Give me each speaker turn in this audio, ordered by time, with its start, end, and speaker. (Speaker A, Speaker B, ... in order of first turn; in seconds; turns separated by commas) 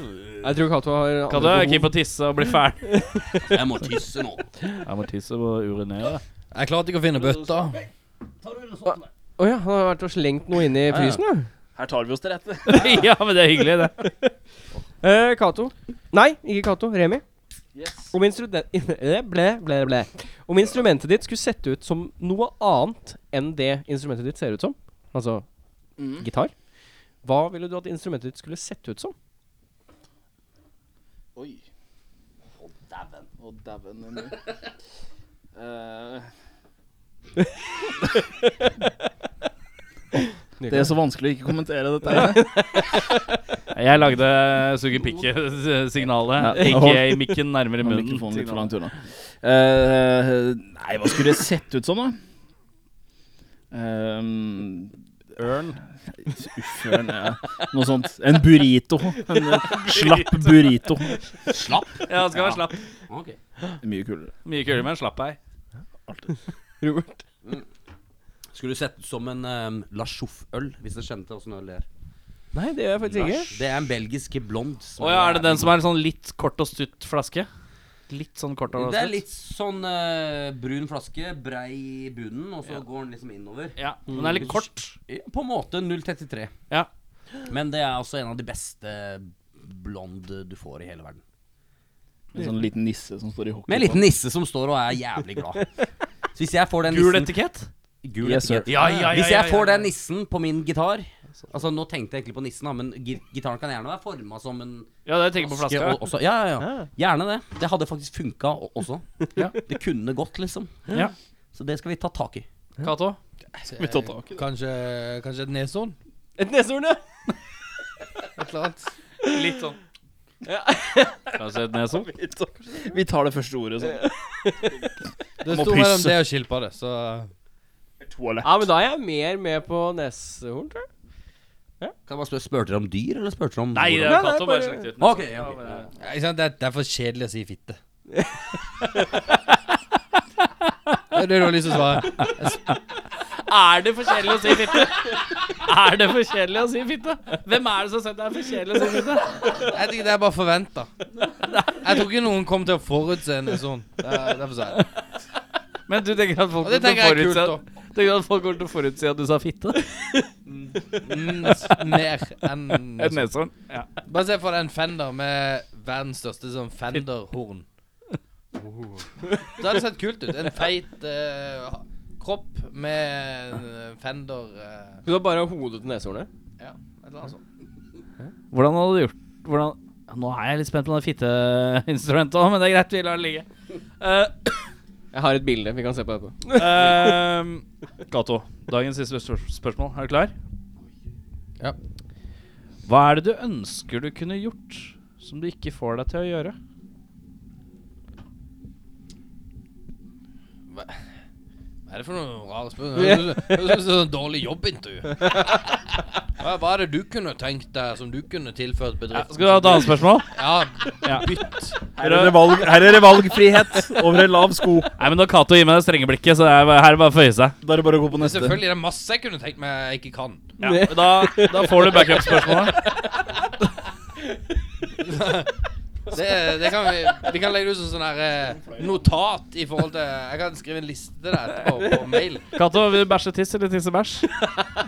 Speaker A: 0.4-1.9, Speaker B: 1.3-3.1, Speaker C: 3.4-4.5, Speaker B: 4.8-6.2, Speaker D: 6.5-7.8, Speaker C: 8.4-9.1, Speaker A: 8.8-11.5, Speaker C: 10.9-11.2, Speaker E: 11.8-13.0, Speaker B: 12.7-14.1, Speaker A: 15.0-17.2, Speaker E: 17.7-18.1, Speaker A: 18.1-25.4, Speaker E: 26.0-26.2, Speaker A: 26.2-26.5, Speaker A: 27.2-29.1, Speaker E: 31.3-31.6, Speaker C: 32.6-33.3, Speaker E: 33.4-34.4, Speaker E: 35.5-36.3, Speaker A: 40.6-40.9, Speaker E: 40.7-42.6, Speaker A: 42.1-43.0, Speaker B: 43.7-48.7, Speaker E: 46.4-52.2, Speaker E: 53.7-55.0, Speaker B: 55.4-55.7, Speaker E: 56.3-61.2, Speaker B: 59.4-61.0, Speaker C: 61.4-63.4, Speaker B: 62.0-62.8, Speaker E: 63.8-64.3, Speaker B: 64.5-65.4, Speaker A: 66.8-67.2, Speaker C: 68.5-71.8, Speaker A: 72.5-73.5, Speaker C: 73.1-75.7, Speaker B: 75.0-77.5, Speaker B: 78.1-79.2, Speaker C: 78.7-86.5, Speaker B: 83.8-85.0, Speaker A: 84.1-84.4, Speaker C: 87.5-91.2, Speaker E: 92.3-94.0, Speaker C: 93.7-95.7, Speaker C: 96.3-97.3, Speaker B: 96.9-97.7, Speaker C: 98.0-110.9, Speaker E: 98.2-98.7, Speaker B: 98.7-99.9, Speaker B: 105.0-106.0, Speaker A: 106.6-106.9, Speaker C: 111.5-112.5, Speaker B: 112.8-113.2, Speaker D: 113.7-116.0, Speaker E: 113.8-114.4, Speaker A: 116.4-117.0, Speaker D: 118.3-118.9, Speaker B: 119.3-119.8, Speaker A: 120.4-121.2, Speaker B: 121.4-122.1, Speaker E: 122.0-124.1, Speaker A: 122.6-123.0, Speaker A: 123.8-124.7, Speaker E: 124.6-124.9, Speaker E: 125.4-126.2, Speaker D: 125.4-127.3, Speaker E: 128.0-128.7, Speaker A: 128.4-130.9, Speaker C: 132.1-134.3, Speaker B: 133.7-135.9, Speaker A: 134.0-134.9, Speaker C: 135.0-135.9, Speaker D: 136.0-137.8, Speaker D: 141.1-142.6, Speaker B: 142.2-142.8, Speaker B: 143.4-149.7, Speaker D: 149.6-150.9, Speaker B: 151.5-151.9, Speaker D: 151.8-154.8, Speaker B: 155.9-160.0, Speaker D: 156.6-157.6, Speaker D: 160.9-163.3, Speaker B: 161.3-162.0, Speaker B: 162.9-163.9, Speaker D: 164.1-167.6, Speaker D: 169.5-175.0, Speaker A: 175.0-176.3, Speaker D: 176.6-177.4, Speaker B: 178.5-183.4, Speaker B: 184.0-184.5, Speaker A: 185.1-187.2, Speaker B: 186.5-190.3, Speaker B: 192.8-196.6, Speaker D: 200.7-201.0, Speaker D: 201.9-205.8, Speaker A: 202.9-203.8, Speaker D: 206.4-211.8, Speaker B: 209.1-210.3, Speaker B: 211.0-211.3, Speaker B: 212.0-212.5, Speaker E: 212.0-214.9, Speaker B: 215.0-217.6, Speaker E: 217.6-218.6, Speaker D: 218.1-220.5, Speaker B: 220.6-222.8, Speaker A: 220.6-222.7, Speaker D: 225.0-225.5, Speaker D: 226.1-232.5, Speaker B: 232.5-234.3